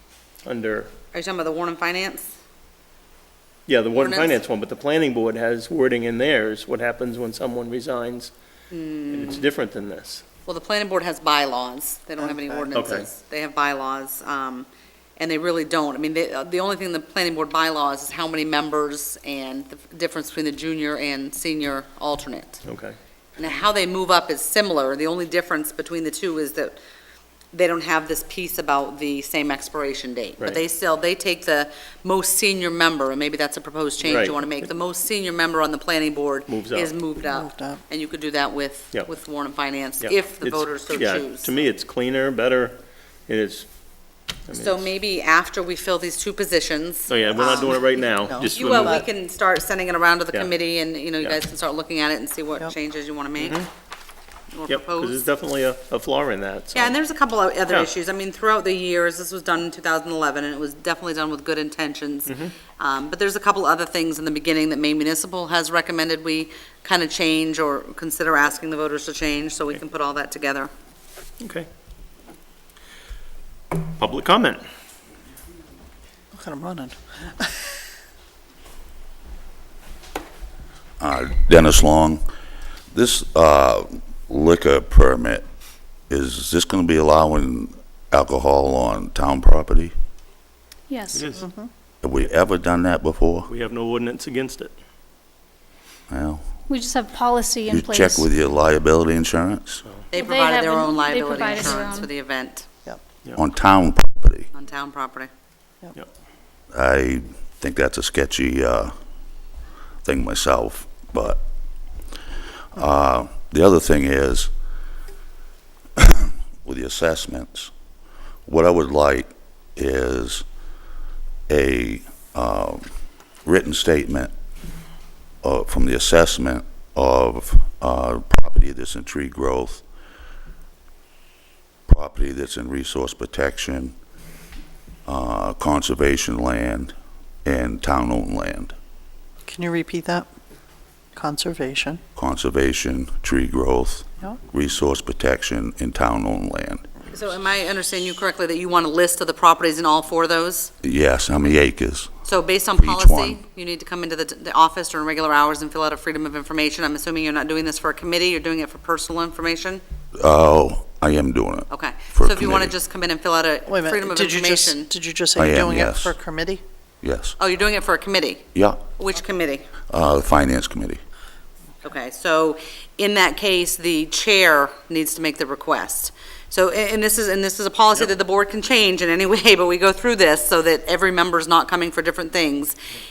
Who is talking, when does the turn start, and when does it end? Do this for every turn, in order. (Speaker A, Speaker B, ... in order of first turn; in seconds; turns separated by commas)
Speaker A: 0.4-0.9, Speaker B: 1.1-2.3, Speaker A: 3.7-8.3, Speaker B: 4.0-4.4, Speaker B: 8.7-9.4, Speaker A: 9.1-10.2, Speaker B: 10.5-14.7, Speaker C: 12.2-12.7, Speaker A: 12.7-13.1, Speaker B: 15.2-22.6, Speaker A: 22.6-22.9, Speaker B: 23.4-26.8, Speaker B: 27.5-41.5, Speaker A: 34.0-34.4, Speaker A: 36.5-36.9, Speaker C: 37.2-37.8, Speaker A: 40.0-43.7, Speaker A: 44.5-44.9, Speaker B: 44.5-47.8, Speaker A: 47.1-49.0, Speaker C: 48.2-49.0, Speaker B: 48.5-53.6, Speaker A: 53.4-53.7, Speaker B: 54.5-55.2, Speaker A: 54.7-56.9, Speaker B: 56.7-70.7, Speaker A: 62.3-62.5, Speaker A: 71.4-71.7, Speaker A: 74.0-74.6, Speaker C: 76.3-77.5, Speaker D: 81.0-82.2, Speaker D: 82.9-85.4, Speaker D: 86.1-89.9, Speaker E: 90.9-91.4, Speaker A: 91.1-91.4, Speaker C: 91.4-91.7, Speaker D: 92.0-93.5, Speaker A: 93.5-94.7, Speaker D: 96.1-96.5, Speaker E: 96.7-98.3, Speaker D: 97.7-99.8, Speaker E: 100.1-102.1, Speaker B: 100.1-102.7, Speaker D: 103.3-104.5, Speaker B: 104.5-105.3, Speaker D: 106.7-108.9, Speaker D: 110.0-111.4, Speaker D: 112.7-114.5, Speaker D: 116.0-117.7, Speaker D: 118.5-120.4, Speaker D: 121.5-122.9, Speaker D: 123.4-124.3, Speaker D: 125.4-129.8, Speaker D: 131.9-133.9, Speaker D: 135.1-136.9, Speaker D: 137.4-138.7, Speaker C: 139.5-140.3, Speaker C: 141.1-142.0, Speaker D: 142.1-146.8, Speaker B: 147.1-150.7, Speaker D: 150.8-152.1, Speaker B: 152.2-159.8, Speaker D: 152.8-153.4, Speaker D: 160.2-162.8, Speaker B: 161.7-164.9, Speaker C: 163.7-166.6, Speaker D: 165.3-166.1, Speaker D: 167.0-167.3, Speaker B: 167.4-169.7, Speaker D: 168.5-168.8, Speaker D: 169.9-171.0, Speaker B: 171.8-182.7